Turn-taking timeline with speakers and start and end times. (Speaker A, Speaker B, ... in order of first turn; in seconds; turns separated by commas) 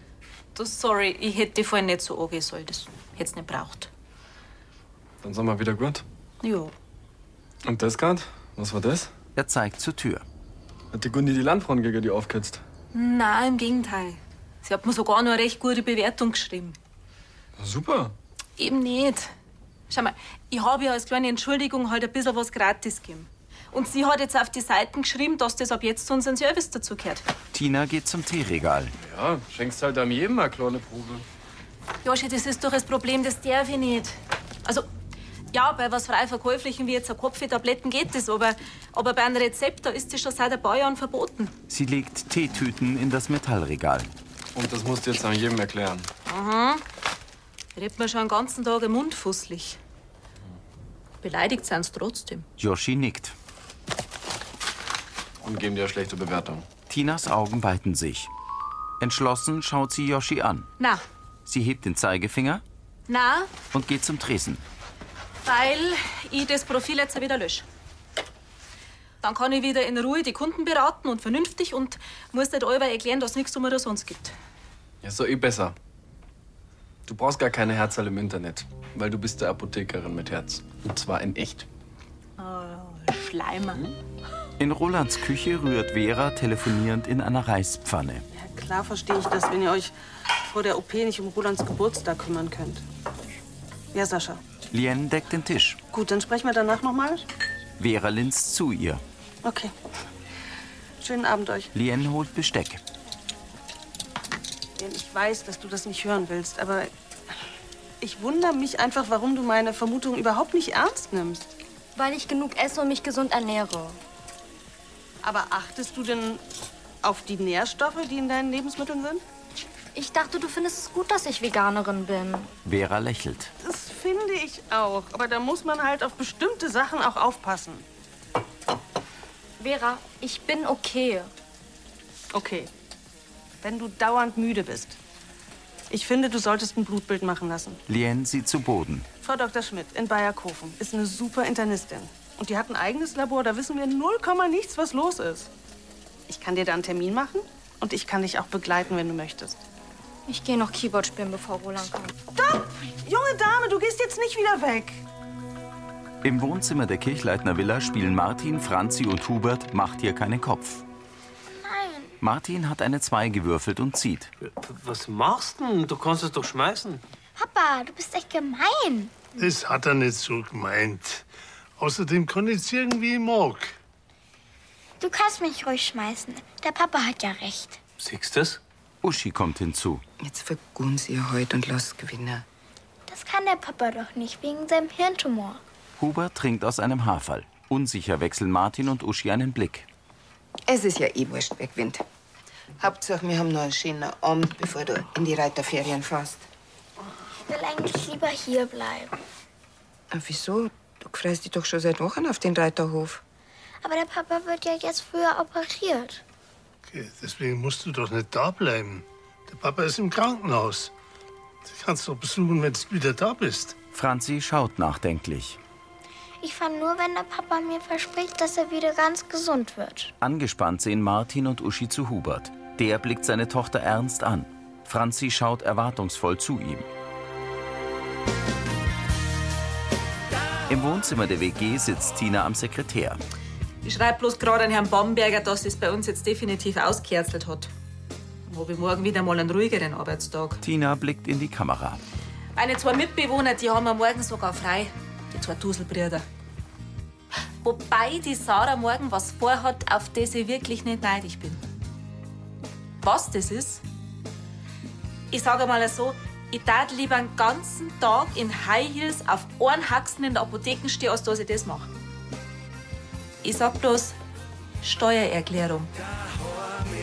Speaker A: 0.5-3.9, Speaker B: 5.2-6.0, Speaker A: 6.4-6.7, Speaker B: 7.6-9.1, Speaker C: 9.3-10.2, Speaker B: 10.9-12.6, Speaker A: 12.9-16.8, Speaker B: 17.6-18.1, Speaker A: 18.6-19.3, Speaker A: 19.9-27.2, Speaker C: 27.5-28.9, Speaker B: 29.0-31.2, Speaker A: 32.0-34.9, Speaker A: 35.5-41.5, Speaker C: 41.7-44.1, Speaker B: 44.5-46.1, Speaker A: 46.3-46.8, Speaker A: 47.8-49.8, Speaker A: 51.2-52.5, Speaker C: 52.6-53.3, Speaker B: 55.4-56.7, Speaker C: 56.9-58.3, Speaker C: 59.0-60.7, Speaker C: 61.5-62.6, Speaker A: 63.1-63.5, Speaker C: 63.7-64.6, Speaker A: 65.4-67.6, Speaker A: 69.2-74.3, Speaker B: 75.0-75.8, Speaker B: 77.0-81.7, Speaker A: 82.4-83.8, Speaker C: 84.6-88.2, Speaker D: 88.3-92.8, Speaker D: 93.9-94.4, Speaker C: 94.7-95.8, Speaker D: 95.9-97.2, Speaker C: 97.8-99.0, Speaker D: 99.4-99.7, Speaker D: 101.0-101.7, Speaker C: 101.7-102.8, Speaker D: 104.8-106.9, Speaker D: 108.0-111.5, Speaker E: 112.0-114.0, Speaker D: 115.2-116.4, Speaker D: 117.0-119.2, Speaker E: 119.9-122.5, Speaker C: 122.6-123.5, Speaker D: 123.6-127.8, Speaker E: 129.6-131.3, Speaker D: 132.3-132.7, Speaker D: 133.6-135.0, Speaker D: 135.9-137.8, Speaker C: 137.9-139.1, Speaker D: 139.2-145.5, Speaker D: 146.3-149.6, Speaker E: 150.3-152.1, Speaker D: 152.3-155.0, Speaker C: 156.2-160.8, Speaker F: 161.6-162.1, Speaker C: 162.2-164.3, Speaker G: 164.4-167.0, Speaker F: 167.4-169.2, Speaker H: 169.3-171.2, Speaker H: 171.8-173.7, Speaker F: 175.0-177.8, Speaker G: 178.0-178.6, Speaker C: 179.0-180.0, Speaker I: 180.2-182.4, Speaker F: 183.1-185.6, Speaker C: 186.0-189.9, Speaker I: 190.7-192.0, Speaker I: 192.8-196.4, Speaker F: 197.4-199.2, Speaker I: 200.1-203.2, Speaker F: 203.8-206.2, Speaker H: 206.9-210.9, Speaker H: 211.7-213.8, Speaker C: 213.9-215.6, Speaker F: 216.4-220.1, Speaker C: 220.2-226.8, Speaker C: 230.7-233.2, Speaker A: 233.8-237.7, Speaker A: 238.5-240.6, Speaker C: 240.6-242.0, Speaker A: 242.6-246.2, Speaker A: 247.6-251.6, Speaker A: 253.0-253.8, Speaker A: 255.3-261.9, Speaker A: 263.4-264.1, Speaker A: 264.8-265.9